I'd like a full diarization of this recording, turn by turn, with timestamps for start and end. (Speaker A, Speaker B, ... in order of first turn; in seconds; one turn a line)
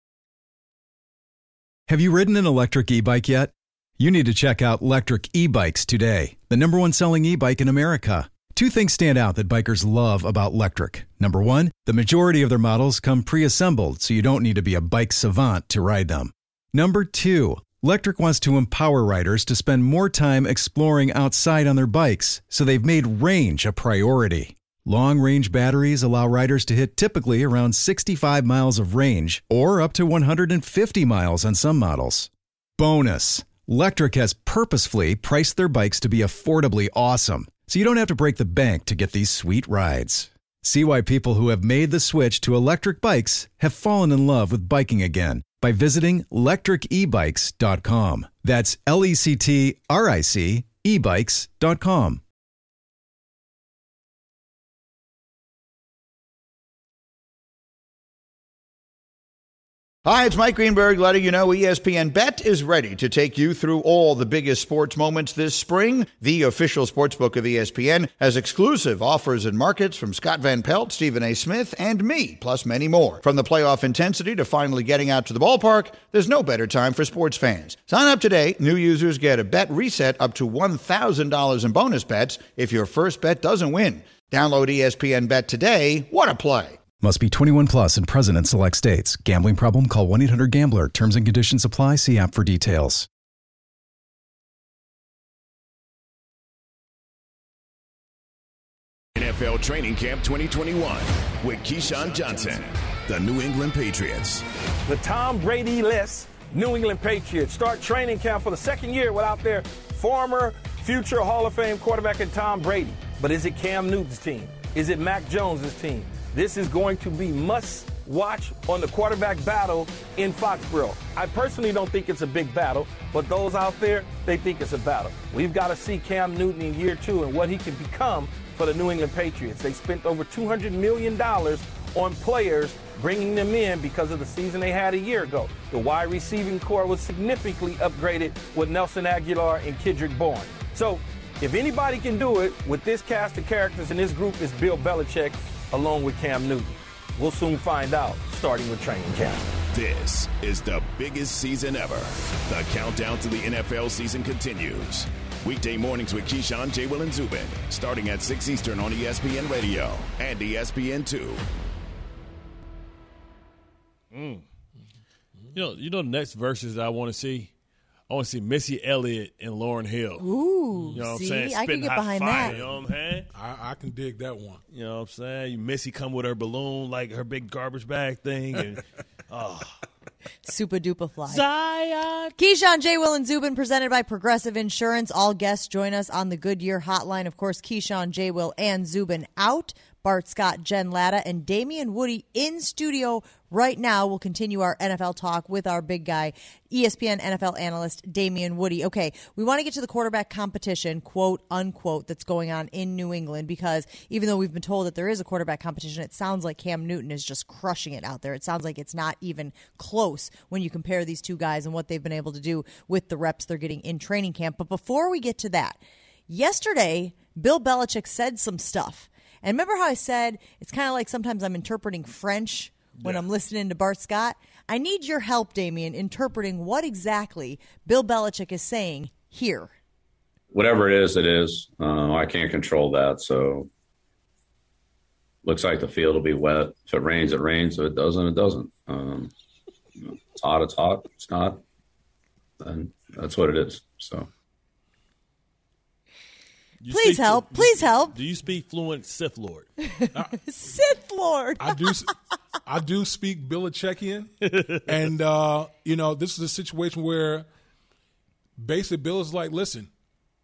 Speaker A: 1.9-52.2
Speaker B: 60.0-86.8
Speaker A: 87.0-93.1
Speaker C: 99.1-104.4
Speaker D: 104.9-149.4
Speaker C: 149.7-161.4
Speaker E: 164.1-164.4
Speaker E: 165.5-167.5
Speaker E: 168.1-170.2
Speaker F: 170.2-172.6
Speaker E: 170.9-173.3
Speaker G: 172.5-172.7
Speaker G: 173.3-174.6
Speaker E: 174.7-179.7
Speaker F: 180.4-181.4
Speaker E: 181.3-182.3
Speaker F: 182.4-229.7
Speaker E: 223.0-223.2
Speaker H: 230.5-233.7
Speaker H: 235.4-239.3
Speaker H: 240.0-241.6
Speaker H: 242.6-244.3
Speaker E: 246.8-249.7
Speaker F: 246.9-248.2
Speaker F: 249.8-251.9
Speaker G: 251.6-252.1
Speaker G: 252.6-254.3
Speaker E: 254.4-254.8
Speaker G: 254.9-257.5
Speaker G: 258.6-259.9